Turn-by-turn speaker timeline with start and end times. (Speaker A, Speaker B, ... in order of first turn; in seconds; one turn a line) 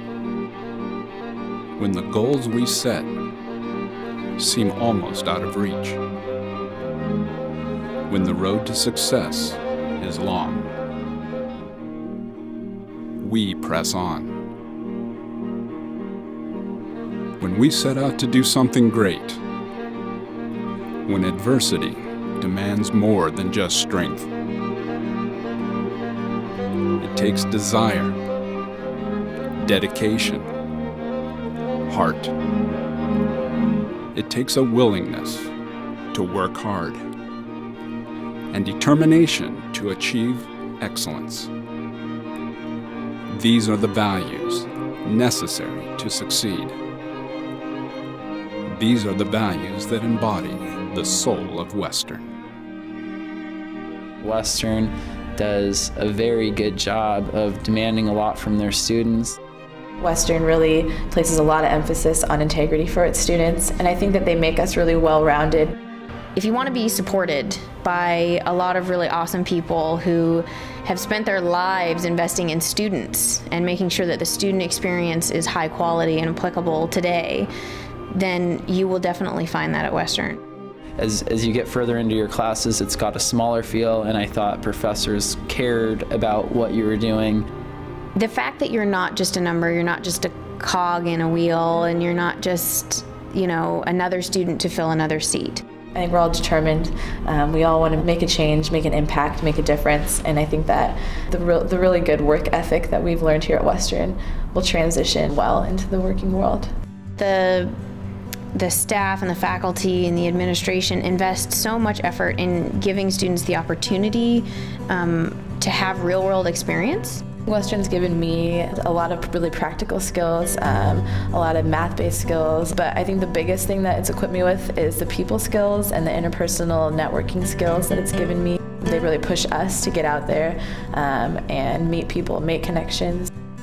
Speaker A: 1.8-3.1
Speaker A: 4.4-6.0
Speaker A: 8.1-10.7
Speaker A: 13.2-14.3
Speaker A: 17.4-19.4
Speaker A: 21.1-24.3
Speaker A: 27.0-28.2
Speaker A: 29.6-30.5
Speaker A: 31.9-32.3
Speaker A: 34.1-35.5
Speaker A: 36.1-37.0
Speaker A: 38.5-41.5
Speaker A: 43.3-46.7
Speaker A: 48.7-52.3
Speaker B: 54.2-59.4
Speaker C: 60.0-65.7
Speaker D: 66.3-77.5
Speaker D: 78.1-80.4
Speaker B: 81.0-87.5
Speaker D: 88.1-95.6
Speaker C: 95.9-106.7
Speaker D: 107.2-107.7
Speaker D: 108.5-117.2
Speaker C: 117.5-133.3